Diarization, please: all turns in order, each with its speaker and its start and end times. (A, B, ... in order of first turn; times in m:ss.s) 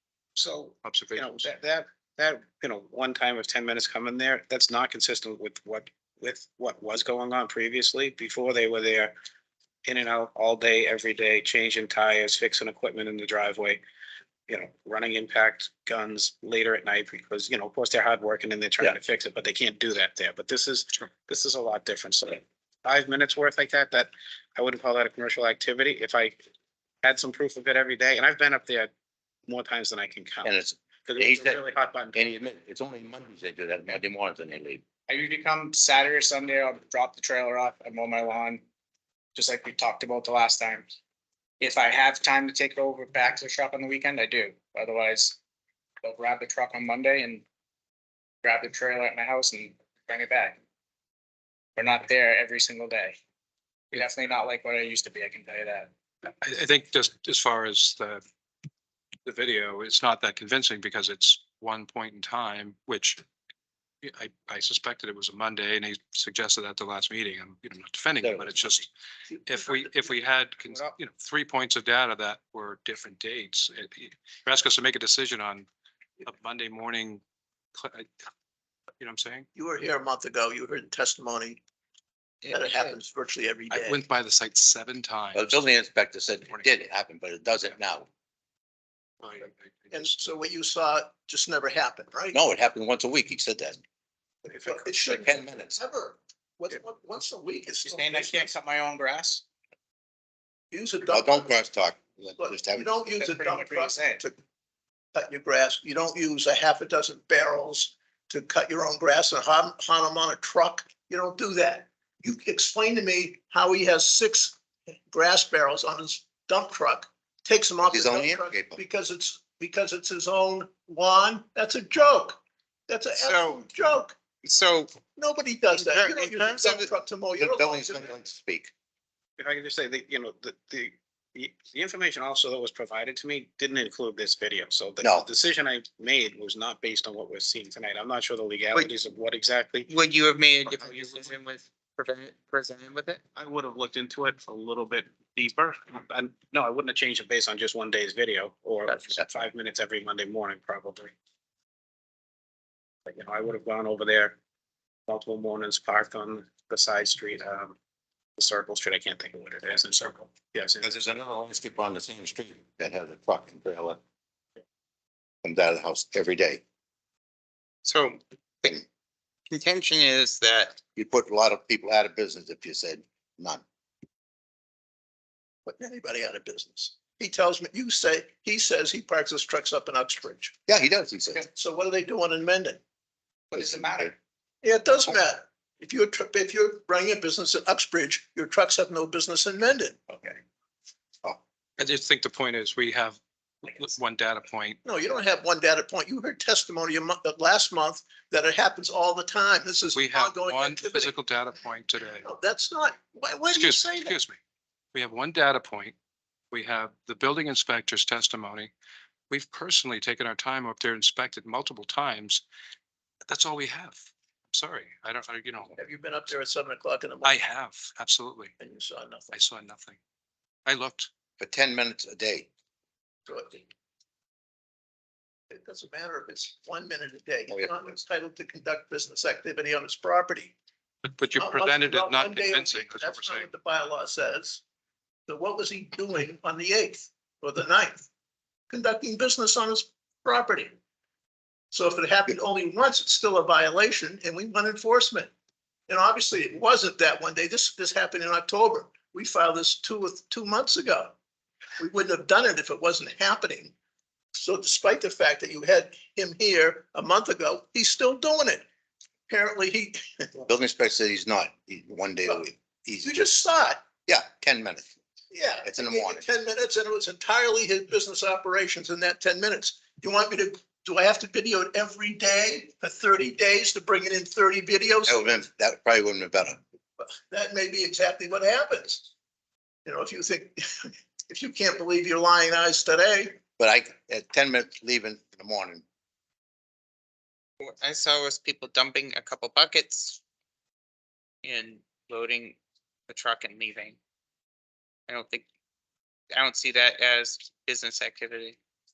0:00.4-0:09.1 A
0:00.8-0:01.5 B
0:09.8-0:13.8 A
0:14.5-0:26.4 A
0:27.0-0:28.9 A
0:29.5-0:30.5 A
0:30.4-0:34.8 C
0:31.0-0:32.3 A
0:35.1-0:38.6 D
0:39.3-0:40.9 D
0:41.6-0:45.4 D
0:46.0-0:47.4 D
0:48.4-0:50.6 D
0:51.8-0:53.2 D
0:53.9-0:55.9 D
0:56.4-0:58.2 B
0:59.2-1:03.2 B
1:04.0-1:08.9 B
1:08.2-1:08.8 C
1:09.4-1:15.7 B
1:09.5-1:10.1 E
1:16.2-1:17.2 B
1:17.7-1:18.1 B
1:19.0-1:19.5 B
1:19.5-1:21.6 E
1:22.4-1:22.9 F
1:22.5-1:24.0 E
1:23.7-1:25.6 B
1:25.3-1:28.1 C
1:29.2-1:30.1 B
1:29.9-1:32.4 E
1:32.3-1:33.8 C
1:34.4-1:38.5 E
1:34.7-1:35.8 C
1:37.8-1:39.4 D
1:40.7-1:41.5 E
1:41.1-1:43.0 C
1:42.4-1:44.4 E
1:43.1-1:44.2 D
1:45.1-1:54.6 E
1:55.1-2:04.2 E
1:57.9-1:58.8 C
2:03.2-2:03.6 F
2:04.4-2:05.0 F
2:05.2-2:08.1 E
2:05.7-2:06.7 F
2:07.4-2:08.7 C
2:09.4-2:19.9 A
2:15.0-2:15.3 C
2:19.9-2:23.2 F
2:23.4-2:31.1 A
2:33.0-2:34.4 A
2:35.1-2:37.8 A
2:38.4-2:40.8 A
2:40.8-2:44.0 C
2:45.4-2:46.6 C
2:47.8-2:48.8 F
2:49.5-2:50.8 F
2:50.9-2:53.6 C
2:55.6-3:00.5 E
3:00.7-3:01.4 C
3:01.3-3:02.8 E
3:03.5-3:04.1 C
3:04.6-3:10.3 E
3:11.8-3:14.8 B
3:14.8-3:21.2 E
3:19.9-3:22.3 B
3:22.2-3:24.2 E
3:23.5-3:24.4 B
3:24.9-3:25.9 B
3:26.5-3:28.7 B
3:29.3-3:32.4 B
3:33.3-3:35.7 B
3:35.8-3:37.4 E
3:37.2-3:38.5 B
3:38.6-3:39.4 E
3:39.3-3:40.0 B
3:40.6-3:41.1 B
3:41.4-3:42.5 C
3:43.3-3:43.7 E
3:45.5-3:50.5 E
3:51.1-3:53.5 B
3:51.3-3:54.6 E
3:55.3-3:58.1 E
3:58.7-4:00.7 E
4:01.7-4:05.3 E
4:05.9-4:11.1 E
4:11.8-4:13.7 E
4:14.3-4:18.6 E
4:19.3-4:20.3 E
4:20.4-4:23.2 C
4:23.0-4:23.8 E
4:24.0-4:24.9 C
4:25.3-4:35.3 E
4:25.6-4:26.2 C
4:35.1-4:36.6 C
4:37.0-4:39.1 E
4:39.8-4:43.4 E
4:43.6-4:45.8 C
4:47.6-4:50.2 F
4:51.4-4:52.6 F
4:53.1-4:54.0 F
4:55.1-4:55.4 F
4:56.3-4:58.6 F